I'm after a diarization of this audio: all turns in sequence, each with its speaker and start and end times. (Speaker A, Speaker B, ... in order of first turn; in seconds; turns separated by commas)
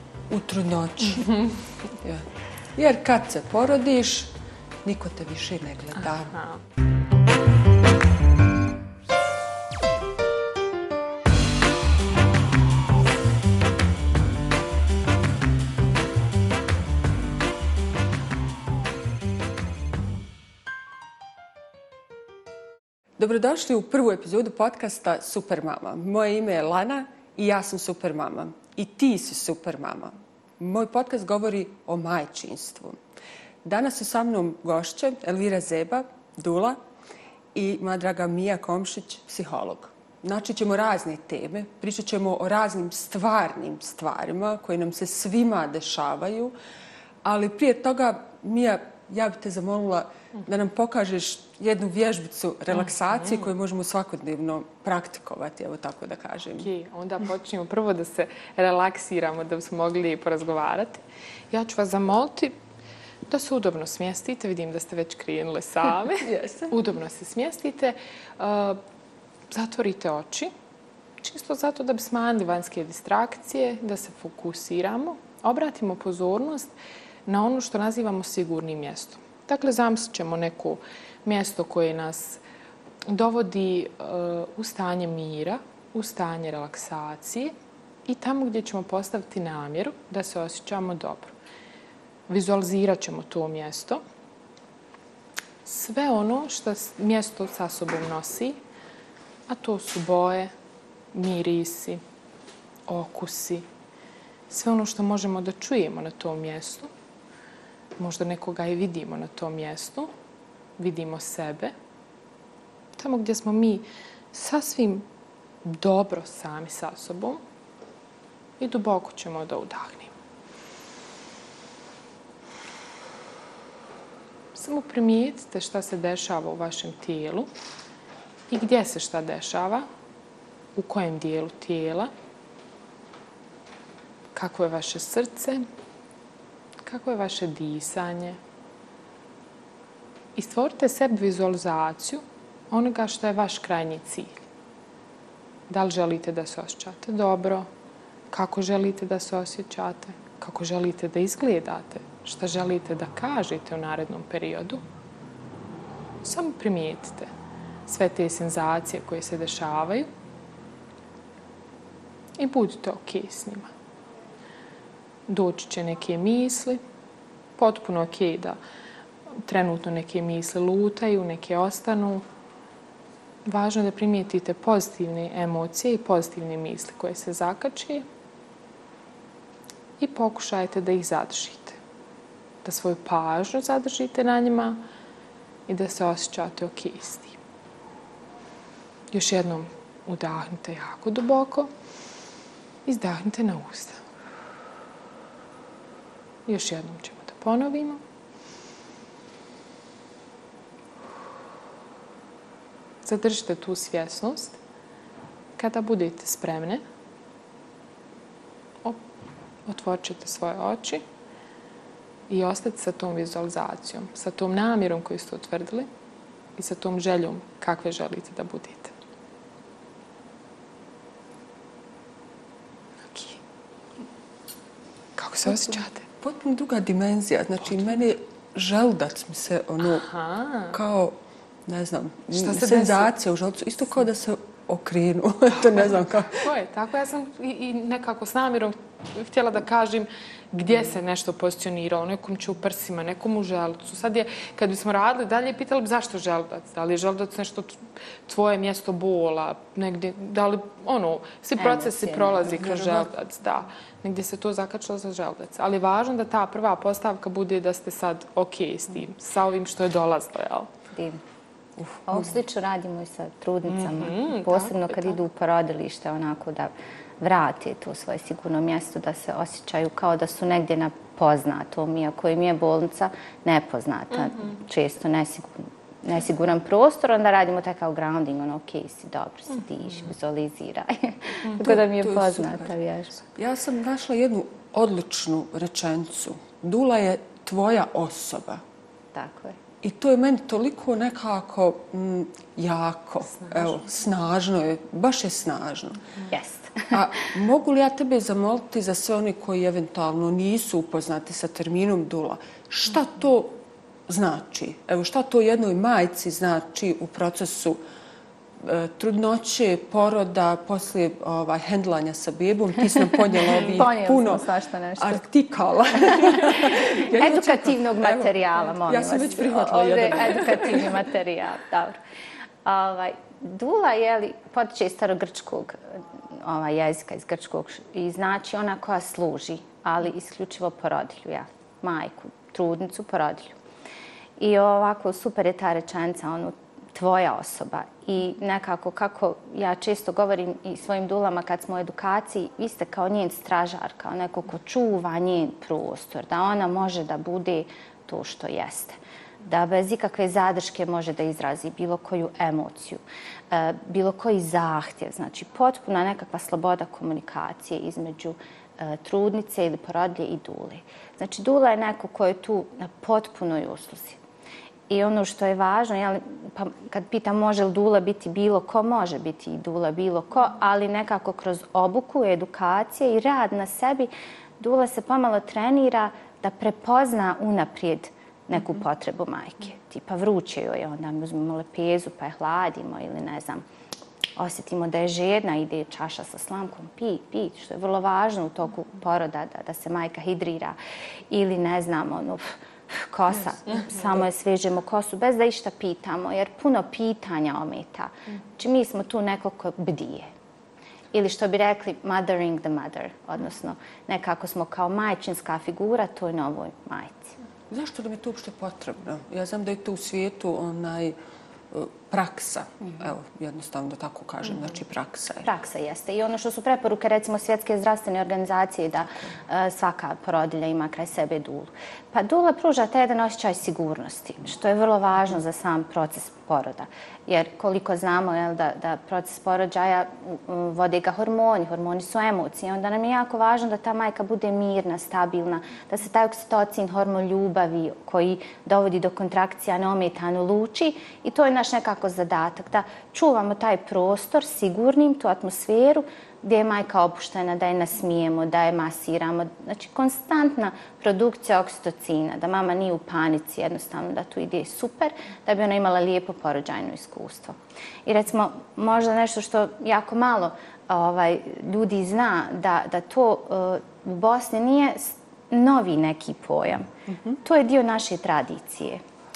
Speaker A: 0.3-1.4, Speaker A: 2.0-6.4, Speaker B: 6.3-6.6, Speaker A: 23.2-33.0, Speaker A: 33.6-36.8, Speaker A: 37.5-46.5, Speaker A: 47.2-56.7, Speaker B: 56.6-62.6, Speaker B: 63.3-68.8, Speaker A: 66.2-66.8, Speaker B: 69.5-70.5, Speaker B: 71.2-76.7, Speaker B: 77.2-82.4, Speaker B: 83.1-87.5, Speaker B: 88.1-91.3, Speaker B: 92.3-94.0, Speaker B: 95.6-98.6, Speaker B: 99.5-100.5, Speaker B: 101.1-102.0, Speaker B: 102.9-103.7, Speaker B: 104.5-106.9, Speaker B: 108.0-110.1, Speaker B: 110.8-111.7, Speaker B: 113.0-115.1, Speaker B: 115.6-117.4, Speaker B: 118.6-120.1, Speaker B: 124.5-127.5, Speaker B: 128.5-129.9, Speaker B: 130.8-132.1, Speaker B: 134.3-135.7, Speaker B: 136.8-138.4, Speaker B: 140.3-144.4, Speaker B: 145.7-147.7, Speaker B: 148.3-154.8, Speaker B: 156.2-157.3, Speaker B: 157.9-160.1, Speaker B: 162.4-163.7, Speaker B: 165.3-166.8, Speaker B: 167.6-168.6, Speaker B: 169.4-172.2, Speaker B: 173.4-178.0, Speaker B: 180.0-181.8, Speaker B: 182.6-184.8, Speaker B: 185.7-187.4, Speaker B: 189.1-191.7, Speaker B: 192.8-194.0, Speaker B: 196.5-198.0, Speaker B: 203.0-204.6, Speaker B: 205.6-206.8, Speaker B: 209.7-211.0, Speaker B: 212.3-215.9, Speaker B: 216.6-218.9, Speaker B: 223.1-223.4, Speaker B: 225.2-226.1, Speaker A: 225.5-230.1, Speaker B: 229.8-230.8, Speaker A: 230.7-236.5, Speaker B: 232.3-233.1, Speaker B: 236.4-260.7, Speaker C: 251.6-252.5, Speaker A: 252.4-253.1, Speaker C: 260.9-261.2, Speaker A: 261.8-262.2, Speaker C: 262.1-283.2, Speaker B: 263.7-265.1, Speaker A: 281.5-282.7, Speaker A: 283.4-288.6, Speaker C: 289.1-289.6, Speaker A: 289.8-296.1, Speaker C: 296.3-296.9, Speaker A: 296.9-307.8, Speaker A: 308.6-314.4, Speaker C: 313.5-315.2, Speaker A: 315.0-321.0, Speaker C: 316.0-322.0, Speaker C: 322.6-333.6, Speaker C: 334.4-364.2, Speaker C: 364.9-383.6, Speaker C: 384.4-390.8, Speaker C: 391.3-400.3, Speaker C: 401.1-407.3, Speaker A: 407.7-411.1, Speaker A: 411.7-415.5, Speaker C: 415.4-466.9, Speaker A: 467.1-467.4, Speaker C: 467.4-469.0